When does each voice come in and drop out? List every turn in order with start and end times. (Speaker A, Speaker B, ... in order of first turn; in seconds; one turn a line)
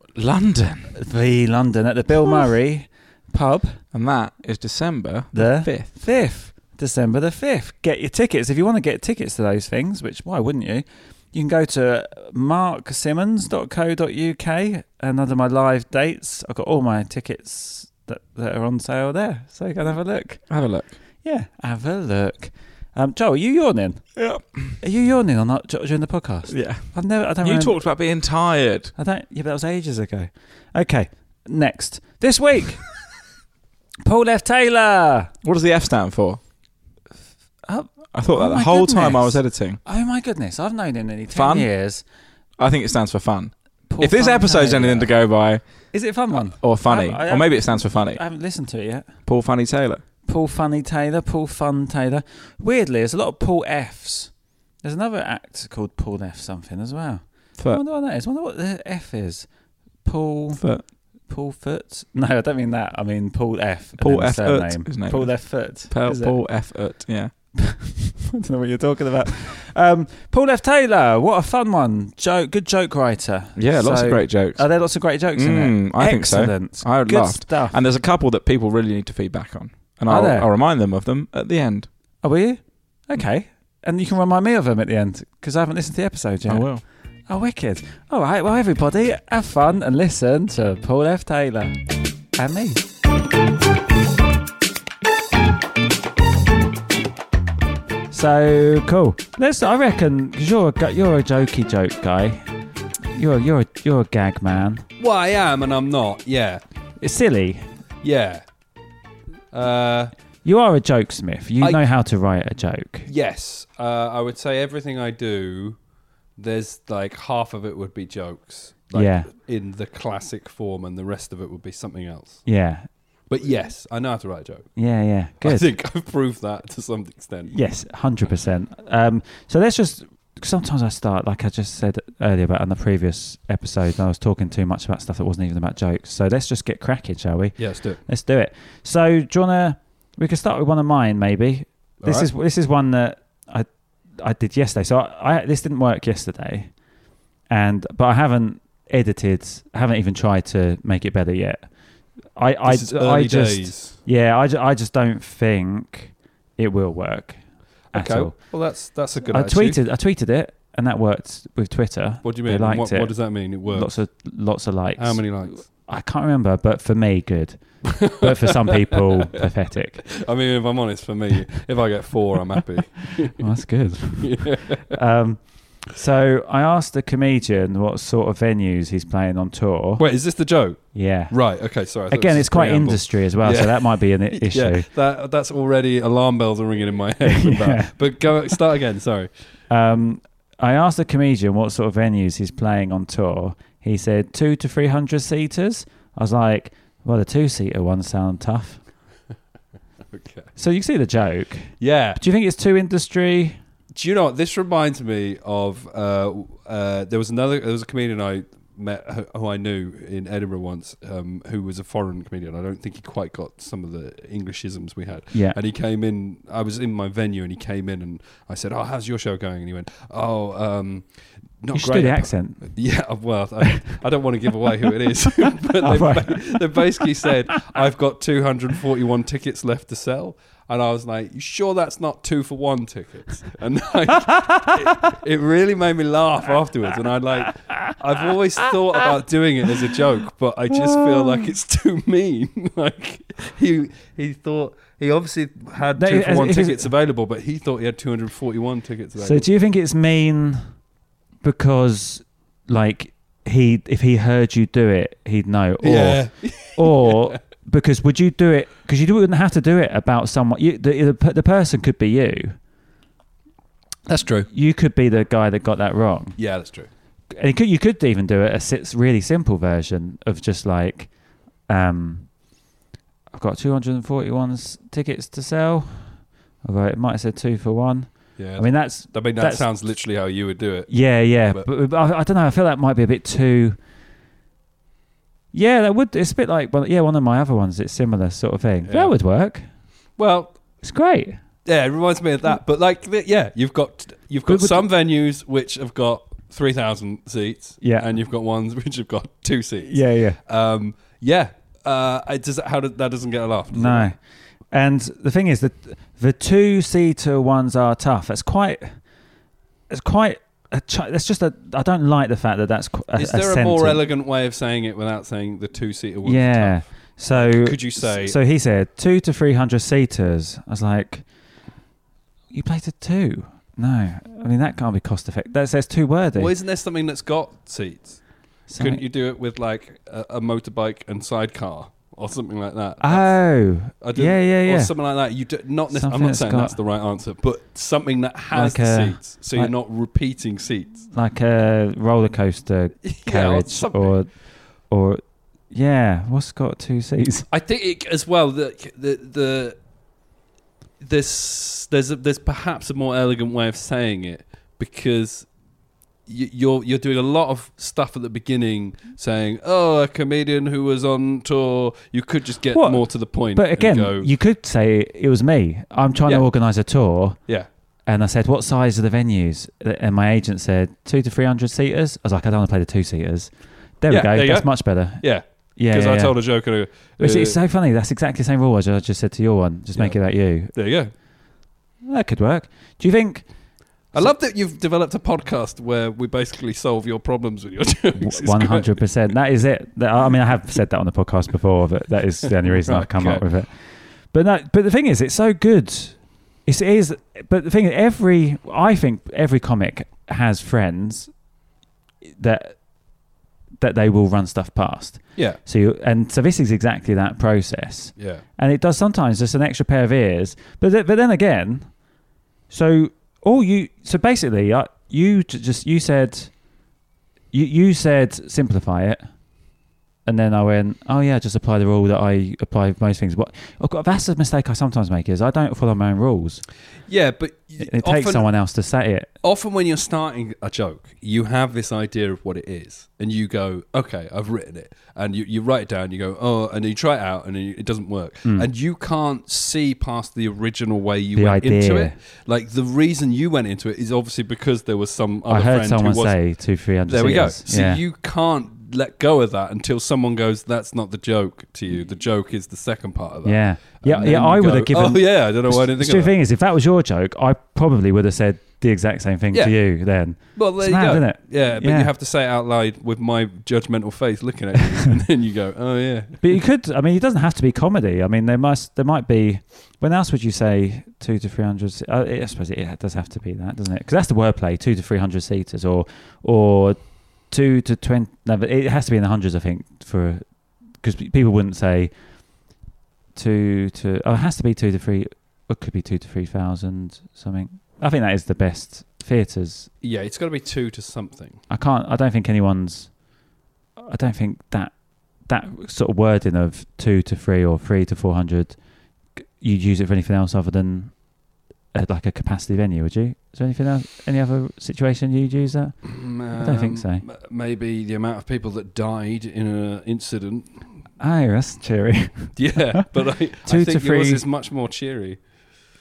Speaker A: 0.2-1.0
Speaker B: 1.0-3.8
Speaker A: 3.9-5.9
Speaker B: 5.3-20.5
Speaker A: 20.5-21.0
Speaker B: 21.2-24.2
Speaker A: 24.2-24.8
Speaker B: 24.8-27.8
Speaker A: 26.5-28.9
Speaker B: 29.0-32.9
Speaker B: 34.0-35.3
Speaker A: 35.4-36.4
Speaker B: 37.6-42.0
Speaker A: 38.1-39.8
Speaker A: 41.3-41.7
Speaker A: 42.6-45.6
Speaker B: 43.9-45.1
Speaker B: 45.9-49.1
Speaker A: 46.5-48.2
Speaker A: 49.2-50.0
Speaker B: 50.3-54.3
Speaker B: 54.8-59.5
Speaker A: 57.6-57.8
Speaker B: 60.0-60.6
Speaker A: 60.5-60.9
Speaker B: 61.3-66.4
Speaker A: 64.0-67.3
Speaker B: 67.6-77.8
Speaker A: 73.6-81.9
Speaker B: 80.1-80.5
Speaker B: 82.2-91.8
Speaker A: 86.5-86.8
Speaker B: 92.3-92.8
Speaker B: 98.1-102.4
Speaker B: 103.1-104.9
Speaker C: 105.0-106.6
Speaker B: 107.0-107.7
Speaker C: 108.0-108.4
Speaker C: 109.5-110.1
Speaker B: 110.4-113.1
Speaker C: 111.6-111.9
Speaker C: 113.1-115.8
Speaker C: 116.4-122.5
Speaker B: 118.9-119.3
Speaker B: 122.5-122.9
Speaker C: 123.3-124.8
Speaker B: 124.8-125.7
Speaker C: 125.4-127.5
Speaker B: 127.5-146.7
Speaker C: 137.6-138.0
Speaker C: 142.0-142.3
Speaker B: 147.5-151.7
Speaker B: 152.3-157.4
Speaker C: 152.7-154.0
Speaker B: 157.9-158.4
Speaker C: 157.9-159.8
Speaker B: 159.3-170.1
Speaker C: 162.2-164.0
Speaker C: 165.0-165.7
Speaker C: 167.9-169.4
Speaker C: 170.1-173.4
Speaker B: 173.3-180.1
Speaker C: 174.2-175.0
Speaker C: 180.0-189.3
Speaker B: 180.9-184.9
Speaker B: 187.3-188.0
Speaker B: 189.7-198.8
Speaker C: 200.1-200.5
Speaker B: 200.6-203.6
Speaker C: 201.8-202.2
Speaker C: 203.9-249.4
Speaker B: 215.3-215.6
Speaker B: 221.7-222.8
Speaker B: 223.7-224.0
Speaker B: 225.8-227.8
Speaker B: 234.3-235.1
Speaker B: 240.7-241.5
Speaker B: 246.0-246.9
Speaker B: 249.2-250.6
Speaker B: 251.4-262.6
Speaker C: 255.8-257.4
Speaker C: 264.1-264.5
Speaker B: 264.5-266.4
Speaker C: 266.4-266.9
Speaker B: 267.3-271.1
Speaker B: 271.7-272.4
Speaker B: 273.3-279.7
Speaker C: 278.4-281.7
Speaker B: 280.9-283.8
Speaker B: 285.5-289.6
Speaker C: 288.9-289.1
Speaker C: 290.2-290.6
Speaker B: 290.8-291.4
Speaker C: 291.6-304.1
Speaker B: 294.5-294.9
Speaker B: 297.8-298.1
Speaker B: 299.9-300.4
Speaker B: 303.7-304.2
Speaker B: 304.7-309.0
Speaker B: 309.9-314.0
Speaker C: 313.1-318.4
Speaker B: 316.2-321.3
Speaker B: 322.5-326.5
Speaker C: 326.4-328.2
Speaker B: 328.7-329.0
Speaker C: 328.8-341.1
Speaker B: 333.0-335.0
Speaker B: 335.9-336.8
Speaker B: 338.5-339.7
Speaker B: 341.1-347.5
Speaker C: 343.0-344.2
Speaker C: 347.5-349.8
Speaker C: 351.0-355.5
Speaker C: 356.3-364.3
Speaker B: 362.7-367.4
Speaker B: 368.1-375.2
Speaker C: 374.1-377.6
Speaker B: 375.8-376.4
Speaker B: 377.2-380.8
Speaker C: 379.9-381.1
Speaker B: 382.1-383.4
Speaker C: 384.1-389.0
Speaker B: 388.2-401.3
Speaker C: 392.4-393.5
Speaker B: 402.3-402.8
Speaker B: 403.8-411.9
Speaker C: 408.2-408.4
Speaker B: 412.7-416.5
Speaker B: 417.5-419.2
Speaker B: 420.2-426.6
Speaker C: 427.1-428.5
Speaker B: 427.8-429.3
Speaker C: 429.4-456.4
Speaker B: 438.4-438.7
Speaker B: 441.4-442.1
Speaker B: 445.5-448.0
Speaker B: 453.4-462.1
Speaker C: 459.5-466.6
Speaker B: 466.4-480.4
Speaker B: 481.0-482.1
Speaker B: 483.4-489.9
Speaker C: 490.0-491.6
Speaker B: 491.7-493.1
Speaker B: 494.0-498.8
Speaker B: 499.4-501.1
Speaker B: 501.9-507.2
Speaker C: 506.0-510.8
Speaker B: 511.2-513.1
Speaker C: 512.6-515.4
Speaker B: 513.6-514.5